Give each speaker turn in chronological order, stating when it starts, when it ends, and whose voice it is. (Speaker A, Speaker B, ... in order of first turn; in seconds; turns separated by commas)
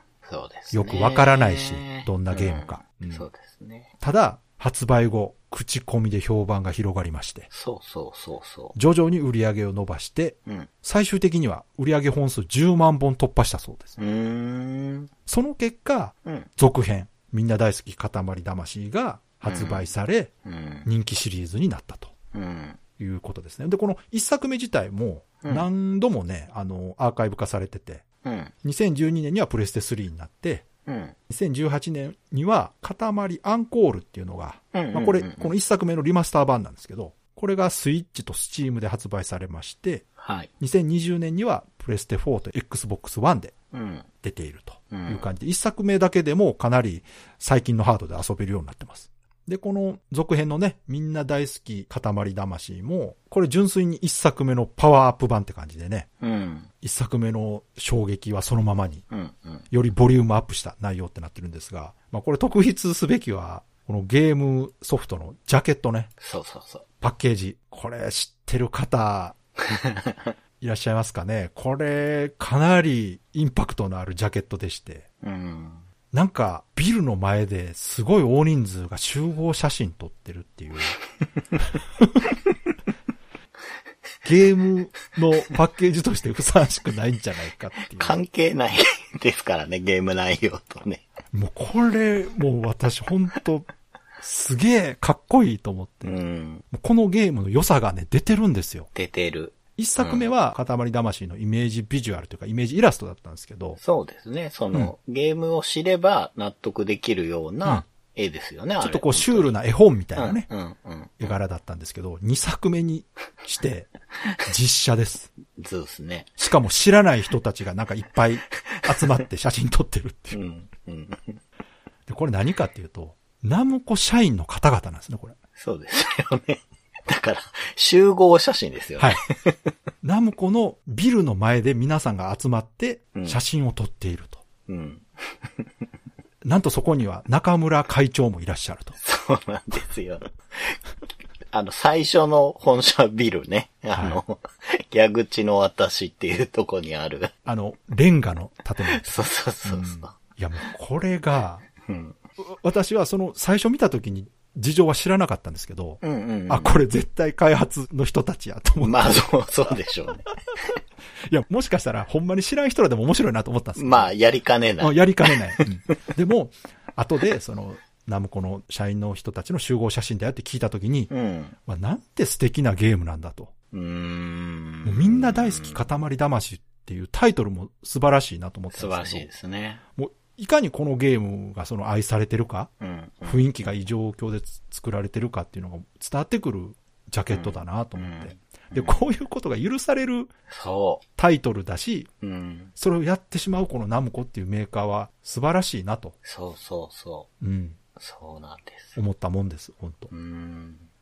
Speaker A: 0.2-3.9, Speaker B: 0.7-3.3, Speaker B: 4.0-7.5, Speaker A: 7.5-8.8, Speaker B: 8.8-14.0, Speaker A: 14.0-15.1, Speaker B: 15.3-20.3, Speaker A: 19.5-19.9, Speaker A: 20.4-20.9, Speaker B: 20.9-22.1, Speaker A: 22.3-22.8, Speaker B: 23.0-28.0, Speaker A: 25.4-25.7, Speaker A: 28.2-28.5, Speaker B: 28.6-30.6, Speaker A: 30.9-31.2, Speaker B: 31.3-40.1, Speaker A: 34.7-35.5, Speaker A: 40.2-40.5, Speaker B: 40.6-43.5, Speaker A: 43.7-44.1, Speaker B: 44.2-56.1, Speaker A: 44.9-45.3, Speaker A: 56.2-56.7, Speaker B: 56.8-59.0, Speaker A: 59.1-59.7, Speaker B: 59.7-66.1, Speaker A: 66.2-66.8, Speaker B: 67.0-69.4, Speaker A: 69.7-70.3, Speaker B: 70.6-75.1, Speaker A: 75.2-75.8, Speaker B: 76.1-81.0, Speaker B: 84.2-88.2, Speaker A: 87.9-91.1, Speaker B: 91.3-93.7, Speaker B: 94.2-96.2, Speaker A: 96.0-96.7, Speaker B: 96.7-98.9, Speaker A: 99.0-100.3, Speaker B: 99.8-103.8, Speaker A: 103.8-109.6, Speaker B: 108.8-110.5, Speaker A: 110.2-111.4, Speaker B: 111.2-113.9, Speaker B: 114.5-115.3, Speaker A: 115.5-116.4, Speaker B: 116.4-120.4, Speaker A: 118.7-119.2, Speaker A: 120.3-121.4, Speaker B: 122.1-125.4, Speaker A: 125.6-129.7, Speaker B: 130.0-134.4, Speaker A: 133.2-133.4, Speaker A: 134.7-135.7, Speaker B: 136.4-139.0, Speaker A: 139.0-140.8, Speaker A: 141.5-147.3, Speaker B: 143.9-144.2, Speaker B: 147.5-149.1, Speaker A: 148.8-150.2, Speaker B: 149.7-151.7, Speaker A: 151.8-152.2, Speaker B: 152.4-159.7, Speaker A: 156.0-156.8, Speaker A: 158.8-160.7, Speaker B: 161.3-164.1, Speaker A: 163.8-165.9, Speaker B: 164.8-171.1, Speaker A: 171.1-171.6, Speaker B: 171.7-173.5, Speaker A: 173.7-175.8, Speaker B: 174.8-179.3, Speaker A: 178.7-179.8, Speaker B: 180.0-182.7, Speaker A: 182.8-183.7, Speaker B: 183.3-190.3, Speaker A: 187.3-189.1, Speaker A: 190.5-191.0, Speaker B: 191.2-192.1, Speaker A: 192.2-192.7, Speaker B: 192.8-196.2, Speaker A: 196.2-197.3, Speaker B: 197.4-197.8, Speaker A: 198.0-199.0, Speaker B: 199.0-200.1, Speaker A: 200.1-200.9